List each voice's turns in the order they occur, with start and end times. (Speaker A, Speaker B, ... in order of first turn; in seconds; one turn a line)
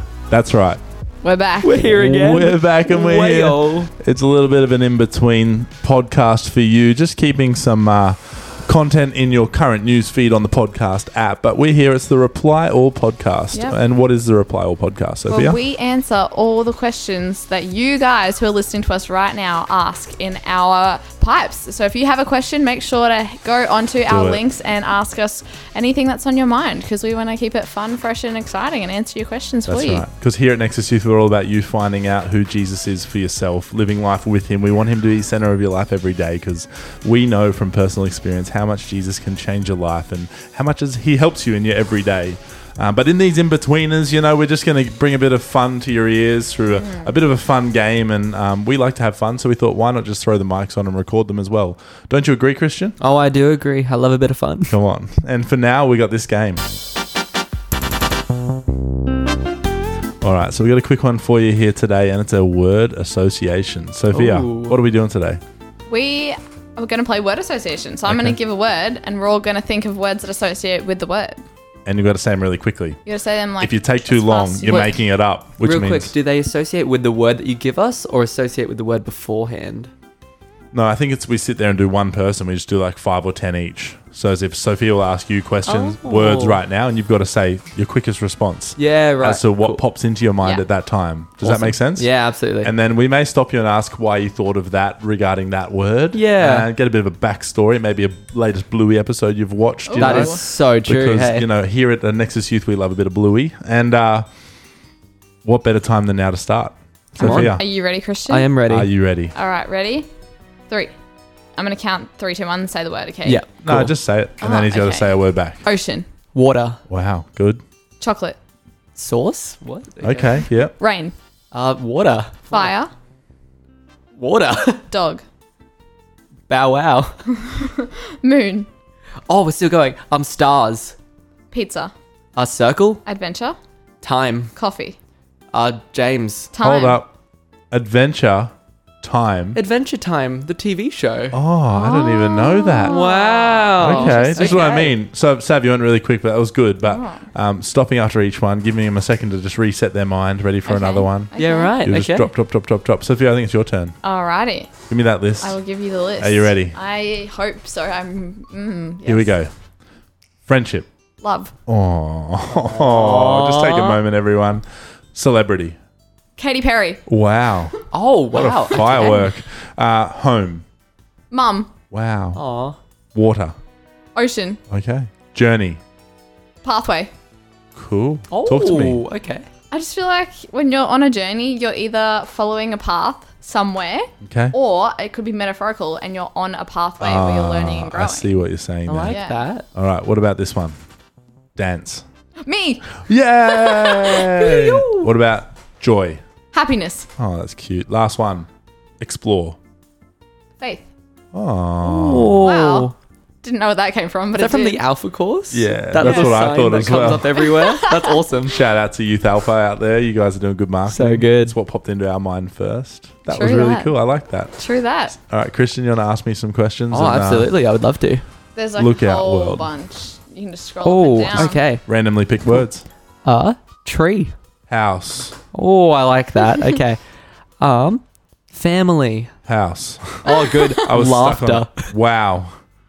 Speaker A: 0.3-0.8
Speaker B: 1.2-1.9
Speaker C: 1.6-3.9
Speaker A: 1.9-15.6
Speaker B: 13.5-13.8
Speaker B: 15.3-30.1
Speaker A: 24.1-24.4
Speaker A: 29.7-53.0
Speaker B: 46.7-47.2
Speaker C: 53.0-54.8
Speaker A: 54.7-56.6
Speaker A: 60.2-65.4
Speaker C: 64.1-64.8
Speaker B: 65.9-71.4
Speaker A: 68.1-68.4
Speaker A: 71.9-73.0
Speaker B: 73.1-75.0
Speaker A: 73.6-76.1
Speaker C: 74.7-74.9
Speaker C: 75.5-79.9
Speaker A: 80.7-92.1
Speaker C: 85.7-86.6
Speaker C: 88.8-89.8
Speaker B: 90.4-90.7
Speaker C: 91.4-92.7
Speaker A: 92.6-104.3
Speaker C: 96.1-96.7
Speaker B: 99.9-100.4
Speaker C: 100.0-101.5
Speaker A: 105.4-107.6
Speaker B: 107.2-108.5
Speaker C: 107.2-107.6
Speaker C: 108.3-108.9
Speaker A: 108.7-109.3
Speaker B: 109.3-110.1
Speaker B: 111.6-113.5
Speaker C: 113.2-114.0
Speaker A: 113.6-115.6
Speaker B: 114.4-116.1
Speaker C: 116.3-116.8
Speaker A: 116.9-117.6
Speaker B: 118.0-118.4
Speaker C: 119.0-120.5
Speaker A: 120.0-120.7
Speaker B: 120.8-121.1
Speaker C: 121.5-122.7
Speaker B: 122.5-122.9
Speaker C: 124.2-124.8
Speaker B: 124.9-125.2
Speaker C: 126.5-127.1
Speaker B: 127.3-128.7
Speaker C: 129.3-131.0
Speaker B: 131.5-131.9
Speaker C: 132.4-133.0
Speaker B: 133.1-133.6
Speaker C: 134.0-134.5
Speaker B: 134.6-135.0
Speaker C: 135.5-136.5
Speaker B: 136.5-137.0
Speaker A: 136.6-137.1
Speaker A: 137.7-139.6
Speaker C: 139.5-141.4
Speaker A: 141.3-143.1
Speaker B: 141.7-144.8
Speaker C: 142.8-145.0
Speaker A: 143.8-154.0
Speaker B: 146.8-147.3
Speaker B: 150.7-151.9
Speaker C: 151.3-152.3
Speaker B: 154.0-154.8
Speaker A: 154.9-155.6
Speaker B: 155.4-159.4
Speaker A: 156.2-156.8
Speaker A: 159.1-159.5
Speaker A: 160.5-160.9
Speaker B: 161.2-161.5
Speaker A: 161.7-165.8
Speaker C: 162.5-164.0
Speaker B: 166.4-167.0
Speaker A: 167.1-167.7
Speaker C: 167.9-169.2
Speaker A: 168.3-170.6
Speaker B: 168.7-169.3
Speaker B: 171.3-171.7
Speaker A: 171.9-172.4
Speaker C: 172.3-172.8
Speaker A: 173.1-173.5
Speaker B: 174.2-174.6
Speaker A: 174.7-175.8
Speaker B: 176.6-177.1
Speaker A: 177.8-179.0
Speaker C: 178.3-179.5
Speaker B: 179.7-188.4
Speaker A: 184.2-184.6
Speaker A: 187.0-190.8
Speaker C: 188.9-189.7
Speaker B: 189.1-189.5
Speaker A: 191.6-192.0
Speaker B: 192.4-194.3
Speaker A: 193.1-196.2
Speaker C: 194.4-195.1
Speaker B: 196.5-197.1
Speaker A: 197.2-198.5
Speaker A: 199.0-199.6
Speaker A: 201.3-202.4
Speaker C: 201.8-202.9
Speaker B: 202.4-204.8
Speaker C: 204.3-208.7
Speaker A: 205.5-207.4
Speaker B: 206.0-206.5
Speaker B: 207.3-208.1
Speaker A: 208.5-214.6
Speaker C: 210.9-211.6
Speaker B: 213.3-214.0
Speaker B: 214.6-215.2
Speaker A: 215.2-217.5
Speaker C: 216.9-218.2
Speaker B: 218.6-221.6
Speaker A: 218.8-219.7
Speaker C: 220.8-221.8
Speaker A: 221.7-222.8
Speaker C: 223.2-224.3
Speaker A: 224.7-225.4
Speaker C: 225.5-227.0
Speaker C: 227.6-229.3
Speaker A: 229.5-230.3
Speaker B: 230.3-230.9
Speaker C: 230.3-231.9
Speaker A: 230.8-232.5